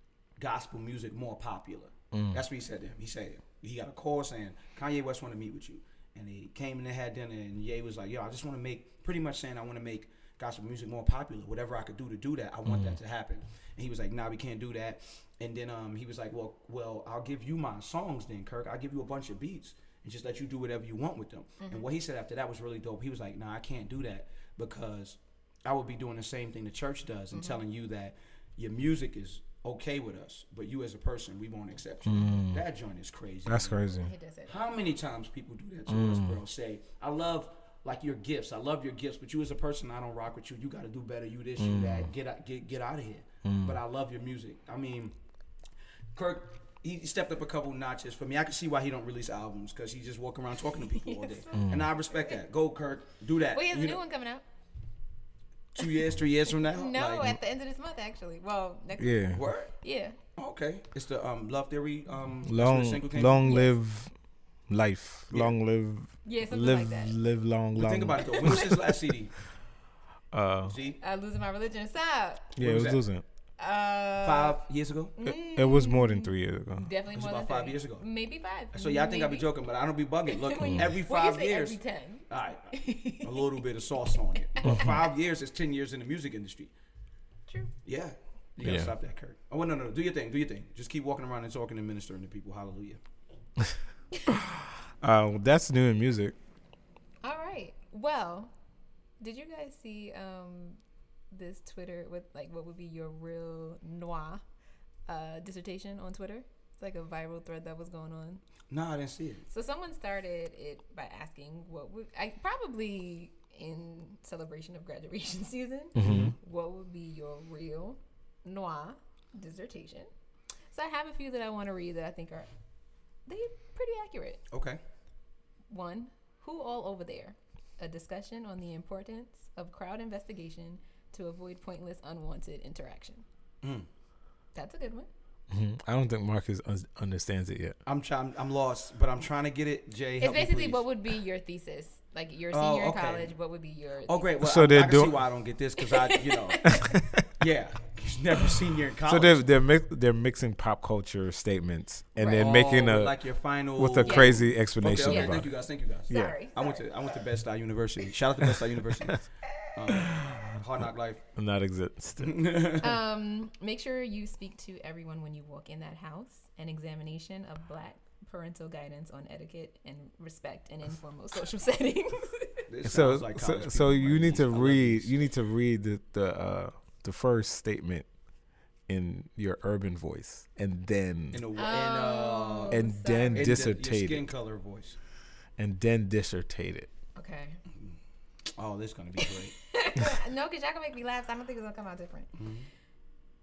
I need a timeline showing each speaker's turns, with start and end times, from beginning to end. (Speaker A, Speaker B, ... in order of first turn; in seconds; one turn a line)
Speaker A: 0.4-33.8
Speaker B: 2.1-2.4
Speaker B: 12.7-13.0
Speaker C: 21.6-21.9
Speaker C: 27.3-27.6
Speaker B: 32.0-32.6
Speaker B: 33.5-34.1
Speaker C: 33.9-34.7
Speaker A: 34.5-45.1
Speaker B: 35.9-36.4
Speaker B: 41.6-42.1
Speaker B: 43.4-43.8
Speaker A: 46.1-54.0
Speaker C: 50.7-52.4
Speaker B: 51.5-51.9
Speaker C: 53.5-54.4
Speaker A: 55.7-57.4
Speaker C: 56.5-60.2
Speaker B: 59.0-59.4
Speaker A: 59.3-59.7
Speaker A: 60.4-63.5
Speaker B: 62.4-64.1
Speaker C: 63.4-63.7
Speaker B: 64.7-68.8
Speaker C: 66.2-67.1
Speaker A: 67.8-69.3
Speaker C: 68.2-69.0
Speaker B: 70.3-70.8
Speaker A: 70.6-71.0
Speaker C: 71.0-72.5
Speaker B: 72.5-73.2
Speaker A: 72.6-73.0
Speaker C: 73.6-74.6
Speaker A: 74.2-75.1
Speaker C: 75.2-79.5
Speaker B: 75.2-76.9
Speaker A: 77.1-78.0
Speaker A: 78.7-86.7
Speaker C: 80.3-83.5
Speaker B: 80.6-80.9
Speaker C: 84.3-85.0
Speaker B: 84.6-85.0
Speaker A: 87.8-93.0
Speaker B: 88.6-88.9
Speaker C: 94.1-94.4
Speaker B: 94.3-96.3
Speaker C: 97.2-98.5
Speaker C: 99.2-100.8
Speaker C: 101.3-104.4
Speaker C: 105.1-108.4
Speaker A: 108.7-109.4
Speaker C: 109.5-120.1
Speaker B: 116.0-116.3
Speaker A: 116.0-116.3
Speaker C: 120.7-122.5
Speaker C: 123.2-124.4
Speaker A: 124.5-124.8
Speaker C: 125.7-133.2
Speaker A: 133.6-133.9
Speaker C: 134.5-135.1
Speaker B: 135.5-137.8
Speaker A: 137.8-140.8
Speaker C: 140.2-144.4
Speaker A: 142.5-143.3
Speaker A: 144.0-146.8
Speaker B: 144.4-145.2
Speaker C: 145.8-147.0
Speaker B: 146.6-147.3
Speaker A: 147.4-149.5
Speaker B: 149.1-153.2
Speaker C: 152.2-152.6
Speaker A: 152.3-161.2
Speaker B: 153.8-155.5
Speaker C: 154.0-154.4
Speaker C: 155.0-155.4
Speaker C: 156.1-156.9
Speaker B: 158.5-159.2
Speaker B: 159.9-160.5
Speaker B: 161.3-162.4
Speaker A: 162.2-163.0
Speaker C: 162.8-172.6
Speaker A: 172.7-175.1
Speaker B: 172.8-178.1
Speaker B: 178.9-181.4
Speaker A: 181.3-182.8
Speaker C: 181.5-183.5
Speaker B: 182.7-184.3
Speaker A: 183.3-185.0
Speaker B: 185.6-186.9
Speaker C: 187.2-187.6
Speaker A: 188.5-189.5
Speaker C: 189.2-192.3
Speaker A: 192.3-192.7